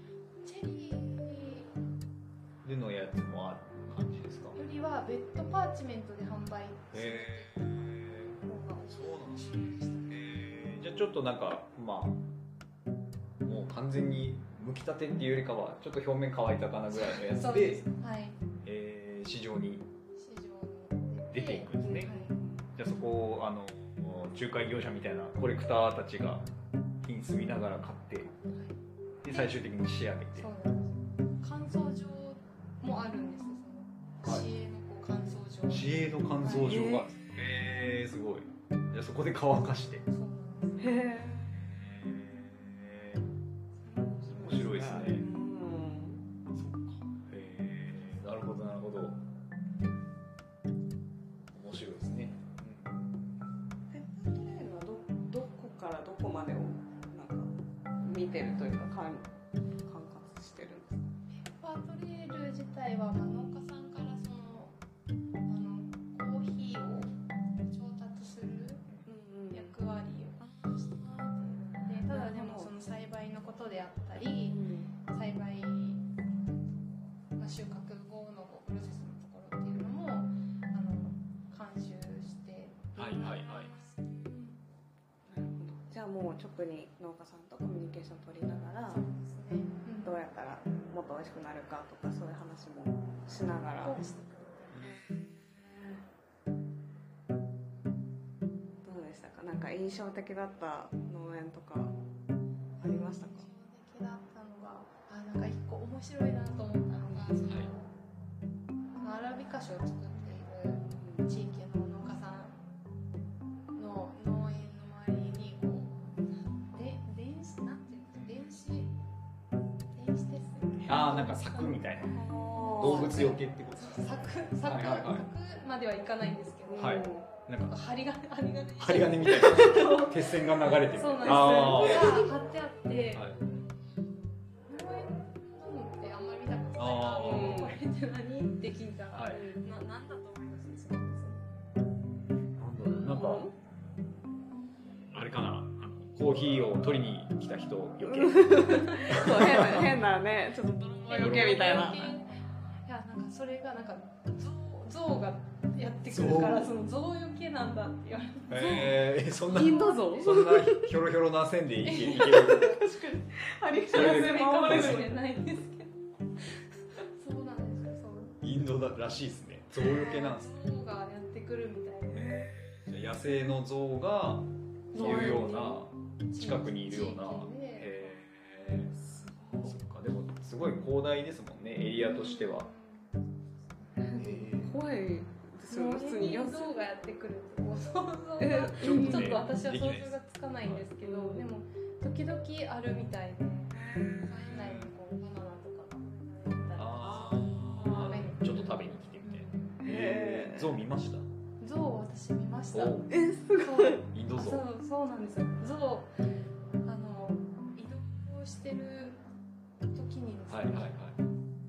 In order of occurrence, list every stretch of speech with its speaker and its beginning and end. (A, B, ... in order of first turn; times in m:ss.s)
0:00.4-0:01.7 A
0:02.6-0:04.6 B
0:04.6-0:07.8 A
0:06.9-0:12.2 B
0:08.4-0:10.4 A
0:13.4-0:17.8 B
0:17.0-0:18.4 A
0:18.6-0:19.9 B
0:20.2-0:22.4 A
0:21.3-0:22.1 B
0:21.8-0:22.7 C
0:22.8-0:26.5 B
0:27.0-0:28.3 B
0:29.2-0:30.5 B
0:29.3-0:29.6 A
0:30.4-0:37.0 A
0:35.7-0:40.0 B
0:36.6-0:37.1 C
0:40.1-0:41.1 A
0:40.8-0:41.7 C
0:41.5-0:43.2 B
0:43.8-0:44.6 A
0:44.3-0:45.3 B
0:44.3-0:46.2 C
0:46.5-0:49.2 B
0:51.5-0:53.0 B
0:53.9-0:59.3 C
0:59.8-1:01.2 C
1:01.3-1:04.8 A
1:05.5-1:07.1 A
1:07.7-1:08.9 A
1:09.1-1:09.8 C
1:09.5-1:16.1 A
1:12.0-1:12.7 C
1:14.5-1:14.9 C
1:16.7-1:24.6 A
1:23.0-1:23.7 B
1:25.3-1:29.1 C
1:28.9-1:30.1 A
1:30.0-1:34.0 C
1:33.8-1:35.0 A
1:34.8-1:36.0 C
1:38.8-1:42.0 C
1:42.8-1:47.8 A
1:42.8-1:43.5 C
1:49.0-1:52.6 A
1:50.9-1:51.3 C
1:53.8-1:58.9 A
1:58.1-1:58.6 B
2:00.0-2:01.8 A
2:00.9-2:02.2 B
2:02.1-2:03.2 C
2:02.5-2:07.2 A
2:02.8-2:05.3 B
2:06.7-2:07.2 C
2:06.8-2:07.7 B
2:07.7-2:13.3 A
2:08.8-2:12.2 B
2:11.2-2:12.2 C
2:13.1-2:13.4 B
2:14.7-2:21.5 A
2:16.8-2:17.7 B
2:17.2-2:17.8 C
2:19.1-2:19.4 B
2:19.3-2:19.7 C
2:22.6-2:23.5 B
2:23.1-2:23.5 C
2:25.1-2:30.0 B
2:28.0-2:32.1 C
2:28.6-2:29.3 A
2:31.1-2:39.0 A
2:31.1-2:32.0 B
2:36.1-2:36.7 B
2:38.5-2:42.7 B
2:39.5-2:40.4 A
2:39.5-2:40.9 C
2:41.8-2:43.0 A
2:42.1-2:45.1 C
2:43.9-2:48.4 A
2:43.9-2:45.0 B
2:48.4-2:50.6 B
2:49.8-2:52.6 A
2:52.2-2:52.6 C
2:52.9-2:58.9 B
2:54.9-2:55.8 A
2:54.9-2:55.8 C
2:56.3-2:58.1 A
2:58.9-2:59.7 A
2:59.5-3:02.7 B
3:02.0-3:03.1 A
3:03.8-3:04.1 A
3:04.0-3:06.9 C
3:04.2-3:04.8 B
3:05.7-3:19.7 A
3:08.4-3:09.4 C
3:08.7-3:10.9 B
3:11.0-3:11.5 C
3:13.7-3:14.5 C
3:14.6-3:14.9 B
3:16.8-3:21.2 B
3:17.0-3:18.3 C
3:19.8-3:20.8 C
3:21.6-3:26.1 A
3:22.7-3:23.1 B
3:23.1-3:24.1 C
3:24.1-3:24.6 B
3:26.8-3:29.2 A
3:29.9-3:31.0 A
3:30.5-3:31.2 B